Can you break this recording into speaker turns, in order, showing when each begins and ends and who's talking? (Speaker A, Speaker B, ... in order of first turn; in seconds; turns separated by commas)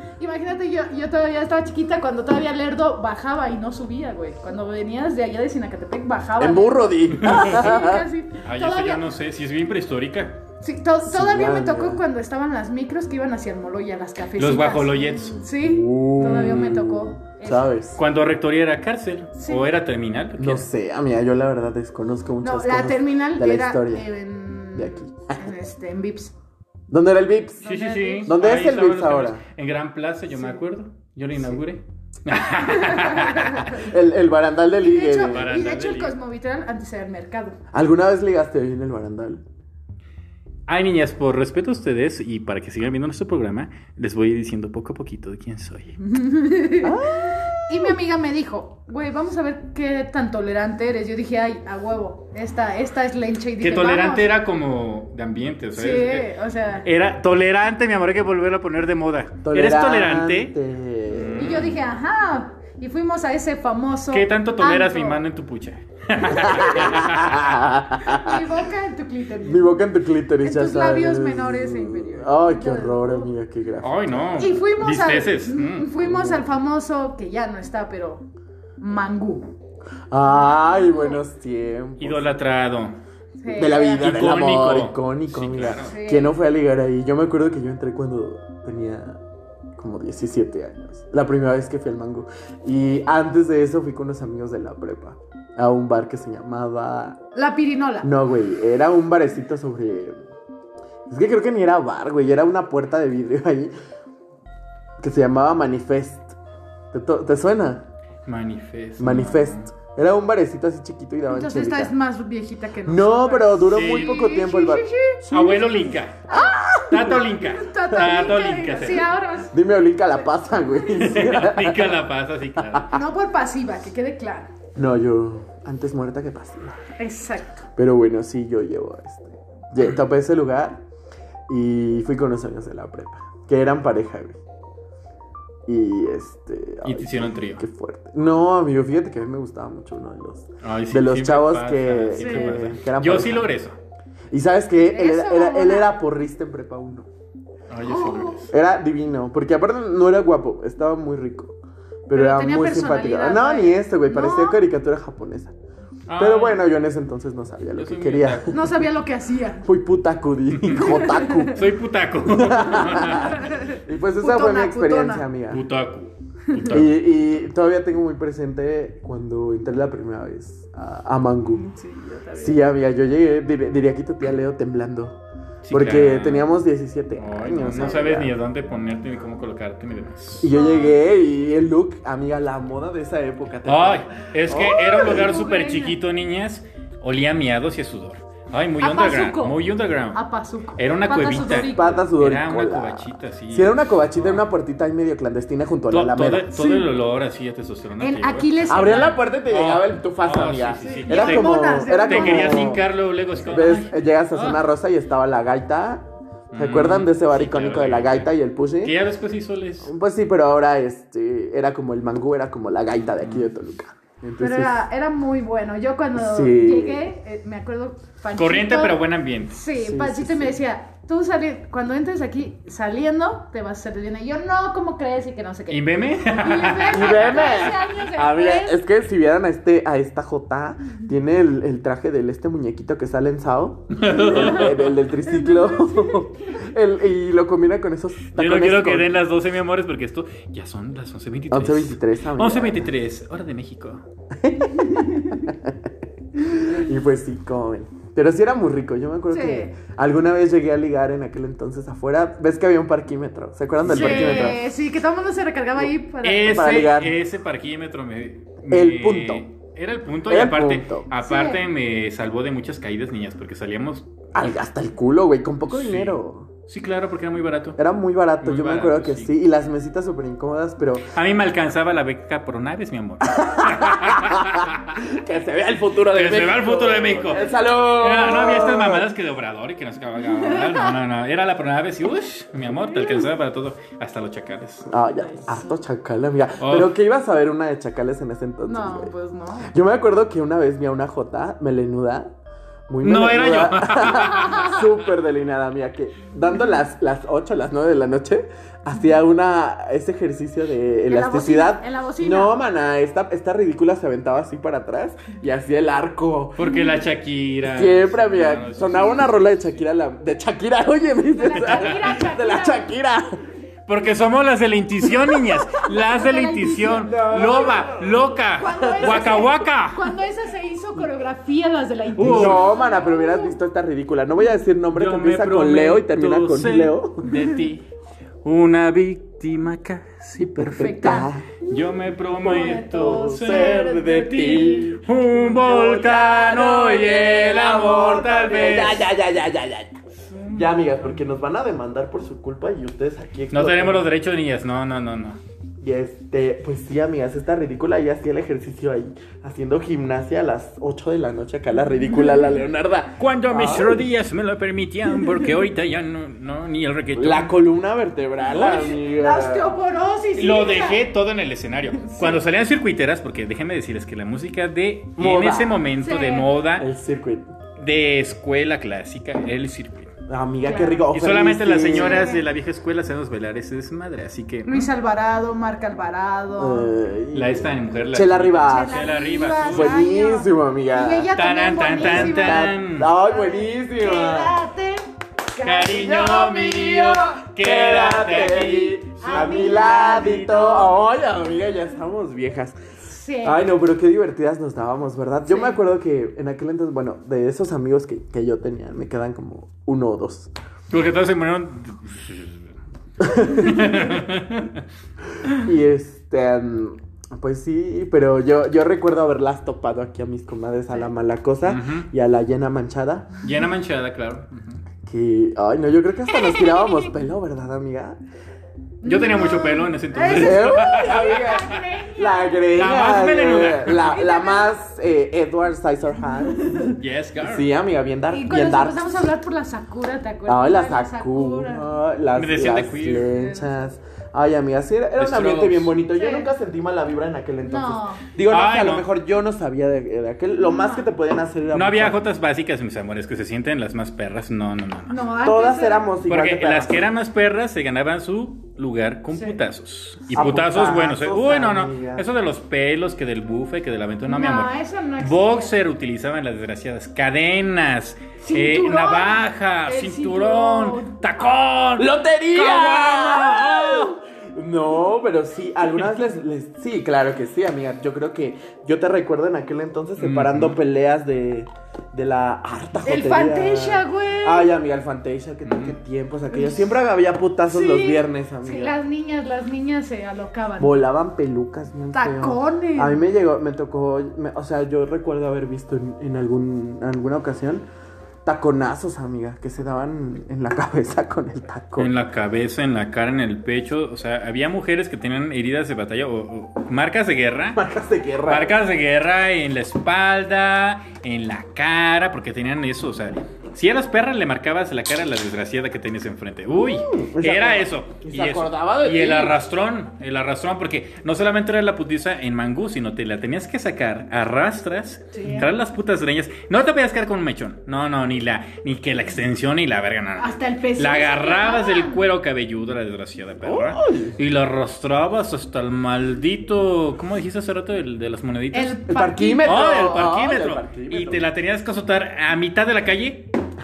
Speaker A: 0.2-9.0, Speaker B: 6.4-8.0, Speaker C: 7.2-7.7, Speaker C: 8.4-10.4, Speaker A: 10.6-17.7, Speaker B: 11.0-12.0, Speaker C: 14.4-15.4, Speaker B: 15.6-18.0, Speaker C: 17.9-20.6, Speaker A: 19.4-19.7, Speaker B: 20.4-24.1, Speaker A: 22.4-26.3, Speaker B: 24.7-25.4, Speaker B: 26.9-27.7, Speaker A: 27.6-28.3, Speaker C: 27.6-33.8, Speaker B: 28.2-29.4, Speaker A: 32.6-33.9, Speaker B: 33.7-35.5, Speaker A: 34.8-37.6, Speaker C: 35.2-36.1, Speaker B: 37.7-39.4, Speaker C: 40.7-46.0, Speaker A: 46.0-54.3, Speaker B: 46.8-47.4, Speaker C: 53.6-56.3, Speaker A: 55.8-56.9, Speaker C: 56.8-60.5, Speaker B: 59.4-61.6, Speaker C: 61.1-61.8, Speaker A: 61.4-65.2, Speaker C: 64.1-67.5, Speaker B: 66.3-68.4, Speaker A: 68.0-69.8, Speaker B: 69.4-74.4, Speaker A: 70.4-73.3, Speaker C: 73.8-75.9, Speaker A: 74.4-78.3, Speaker B: 76.0-76.5, Speaker A: 78.8-79.5, Speaker B: 80.1-82.3, Speaker A: 80.2-81.2, Speaker C: 82.0-83.0, Speaker A: 83.4-84.2, Speaker B: 83.5-89.2, Speaker C: 83.9-86.0, Speaker A: 85.8-86.4, Speaker B: 89.8-97.2, Speaker A: 97.3-98.1, Speaker B: 98.0-100.2, Speaker B: 101.1-103.7, Speaker B: 105.0-106.4, Speaker B: 106.9-107.8, Speaker C: 108.2-109.7, Speaker B: 109.0-111.9, Speaker A: 111.3-119.5, Speaker B: 112.8-114.8, Speaker C: 113.7-114.2, Speaker C: 115.3-119.1, Speaker B: 116.3-117.2, Speaker B: 119.5-122.0, Speaker C: 120.9-122.9, Speaker B: 122.6-122.9, Speaker A: 122.9-124.5, Speaker B: 124.8-126.8, Speaker A: 127.0-127.6, Speaker B: 127.8-130.8, Speaker B: 131.5-134.4, Speaker B: 135.7-143.5, Speaker C: 136.8-137.6, Speaker C: 140.6-143.8, Speaker A: 142.1-142.6, Speaker B: 144.3-147.1, Speaker A: 144.8-145.9, Speaker C: 147.7-148.5, Speaker A: 147.8-148.4, Speaker B: 148.5-155.5, Speaker A: 152.1-154.6, Speaker C: 156.1-156.6, Speaker B: 156.2-158.8, Speaker C: 157.8-158.6, Speaker A: 158.5-159.7, Speaker B: 159.6-161.7, Speaker C: 160.5-163.4, Speaker A: 160.8-161.6, Speaker B: 162.2-165.6, Speaker A: 163.0-165.3, Speaker C: 165.5-166.9, Speaker B: 166.7-171.7, Speaker A: 171.5-172.6, Speaker B: 172.3-175.2, Speaker C: 175.6-176.5, Speaker B: 175.7-178.3, Speaker C: 177.2-180.5, Speaker B: 180.4-185.3, Speaker A: 180.5-181.0, Speaker C: 183.7-190.2, Speaker A: 184.6-186.0, Speaker A: 188.8-189.6, Speaker A: 190.1-192.0, Speaker C: 190.8-194.5, Speaker B: 191.7-196.6, Speaker C: 195.9-204.6, Speaker A: 196.5-196.9, Speaker A: 198.0-199.2, Speaker B: 198.7-202.8, Speaker A: 200.8-202.8, Speaker B: 203.4-208.9, Speaker C: 206.5-209.9, Speaker B: 209.8-214.8, Speaker C: 213.2-213.5, Speaker A: 214.4-228.8, Speaker B: 216.1-217.0, Speaker C: 218.3-219.6, Speaker B: 219.7-220.6, Speaker C: 225.7-228.0, Speaker B: 226.9-239.1, Speaker C: 233.9-234.9, Speaker A: 234.3-234.7, Speaker A: 235.2-236.6, Speaker C: 238.3-244.0, Speaker B: 241.5-242.9, Speaker B: 244.4-245.8, Speaker A: 244.7-245.5, Speaker B: 246.4-254.6, Speaker A: 249.3-249.7, Speaker C: 253.8-254.6, Speaker A: 253.9-256.7, Speaker C: 256.2-264.3, Speaker B: 256.4-257.2, Speaker B: 258.7-259.4, Speaker B: 260.3-261.1, Speaker A: 261.2-261.6, Speaker B: 264.3-266.5, Speaker C: 265.7-267.8, Speaker B: 267.8-271.1, Speaker C: 268.4-269.3, Speaker C: 271.1-274.9, Speaker B: 273.2-279.1, Speaker C: 276.1-284.9, Speaker A: 280.4-280.9, Speaker B: 284.9-289.1, Speaker A: 285.2-285.7, Speaker C: 286.6-286.9, Speaker A: 288.6-289.7, Speaker B: 289.7-292.3, Speaker B: 292.9-306.7, Speaker C: 293.0-294.9, Speaker A: 301.1-302.6, Speaker C: 306.6-309.4, Speaker B: 307.6-313.4, Speaker A: 311.3-312.9, Speaker C: 311.6-312.2, Speaker C: 313.9-320.1, Speaker A: 315.8-317.9, Speaker B: 317.0-319.4, Speaker A: 318.6-323.6, Speaker C: 322.2-322.6, Speaker B: 322.2-327.3, Speaker C: 324.9-327.9, Speaker C: 328.4-339.1, Speaker A: 330.6-331.3, Speaker B: 330.6-331.5, Speaker A: 332.4-334.9, Speaker B: 332.7-344.1, Speaker C: 343.5-345.4, Speaker B: 345.8-354.0, Speaker C: 353.2-357.5, Speaker B: 357.1-359.7, Speaker A: 358.5-361.0, Speaker C: 358.5-358.9, Speaker C: 360.4-366.9, Speaker A: 362.0-362.4, Speaker B: 365.2-365.9, Speaker A: 366.0-366.5, Speaker B: 366.8-367.5, Speaker C: 367.8-370.1, Speaker B: 370.3-372.3, Speaker A: 370.6-371.1, Speaker C: 371.1-374.9, Speaker A: 371.9-372.4, Speaker A: 374.6-376.9, Speaker B: 376.6-379.1, Speaker C: 377.3-380.0, Speaker A: 378.6-386.1, Speaker B: 379.6-381.3, Speaker C: 381.3-383.1, Speaker B: 382.0-384.6, Speaker C: 385.6-390.3, Speaker B: 385.8-392.8, Speaker A: 388.4-390.9, Speaker A: 393.1-393.6, Speaker B: 393.4-400.5, Speaker A: 395.4-395.8, Speaker C: 400.9-402.7, Speaker B: 403.2-404.2, Speaker C: 403.4-404.8, Speaker B: 405.4-413.3, Speaker C: 411.6-412.1, Speaker C: 413.4-414.8, Speaker B: 415.0-418.2, Speaker A: 416.3-417.1, Speaker A: 419.0-422.8, Speaker C: 419.0-421.8, Speaker B: 420.3-429.0, Speaker C: 422.7-424.2, Speaker A: 423.9-424.7, Speaker A: 426.5-426.9, Speaker C: 426.9-427.7, Speaker A: 428.3-431.9, Speaker B: 430.4-442.2, Speaker C: 432.3-433.3, Speaker A: 433.3-433.8, Speaker C: 435.2-435.9, Speaker A: 436.1-436.5, Speaker A: 437.6-438.2, Speaker C: 438.4-439.1, Speaker A: 440.6-441.1, Speaker C: 441.7-445.2, Speaker A: 445.1-446.1, Speaker B: 445.4-447.1, Speaker C: 446.3-464.1, Speaker A: 449.3-449.6, Speaker B: 450.3-452.2, Speaker A: 454.3-455.7, Speaker A: 458.4-461.2, Speaker B: 462.0-479.0, Speaker C: 470.2-470.8, Speaker A: 473.0-474.7, Speaker C: 475.6-476.0, Speaker A: 477.7-481.0, Speaker B: 480.8-487.8, Speaker A: 482.1-483.3, Speaker B: 488.4-492.1, Speaker C: 492.0-497.8, Speaker B: 497.7-498.8, Speaker C: 498.4-529.0, Speaker B: 506.8-509.6, Speaker A: 515.3-515.7, Speaker A: 520.4-522.2, Speaker B: 523.6-524.4, Speaker A: 528.7-529.8, Speaker B: 529.1-531.4, Speaker C: 529.6-533.5